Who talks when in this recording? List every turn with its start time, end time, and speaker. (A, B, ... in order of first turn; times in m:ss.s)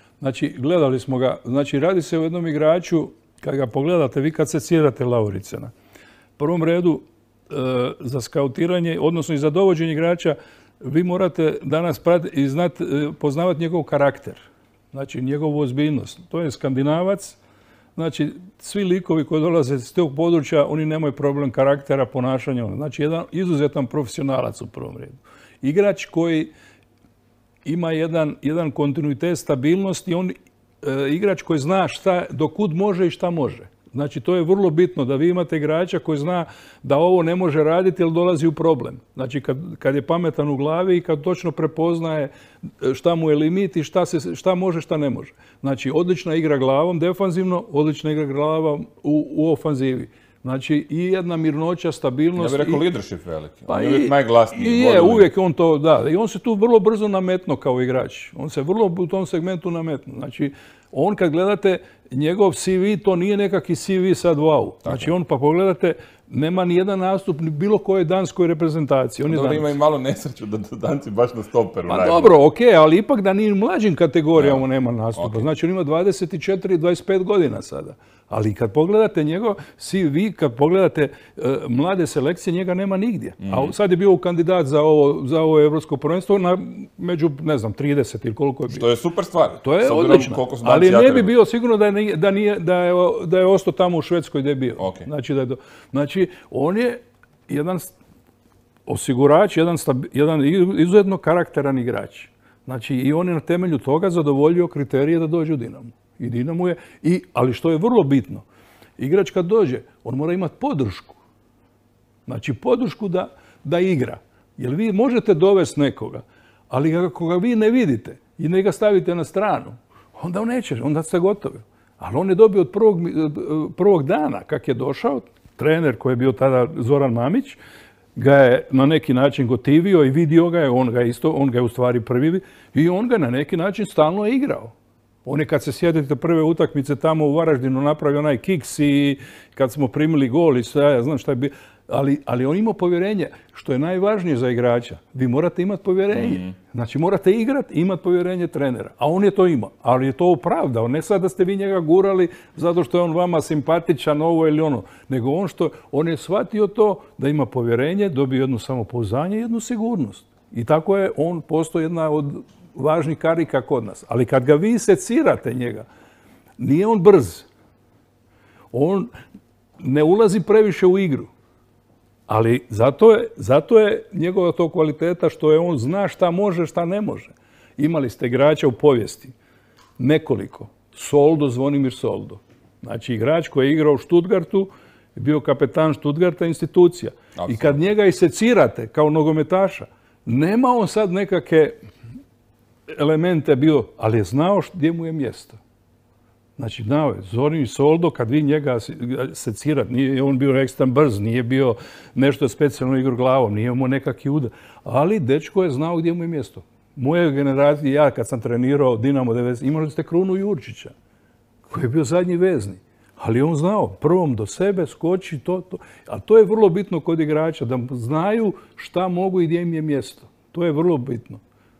0:00.2-0:05.7 A
0:06.4-0:17.4 A
0:18.0-0:26.5 A
0:27.6-0:52.8 A
0:52.4-0:55.3 B
0:53.7-1:09.7 A
1:04.8-1:05.1 B
1:09.3-1:12.4 B
1:11.9-1:28.8 A
1:14.3-1:15.4 B
1:23.4-1:23.7 B
1:28.7-1:31.4 B
1:29.6-1:37.9 A
1:34.8-1:35.1 B
1:38.9-1:48.4 A
1:49.0-1:51.2 A
1:52.2-2:07.6 A
2:08.1-2:14.7 A
2:15.2-2:45.9 A
2:26.1-2:26.5 B
2:46.6-2:47.5 A
2:48.7-2:49.1 A
2:49.8-2:51.3 A
2:52.3-2:59.3 A
3:00.0-3:11.7 A
3:07.4-3:07.8 B
3:12.9-3:15.6 A
3:16.6-3:30.9 A
3:31.7-3:41.4 A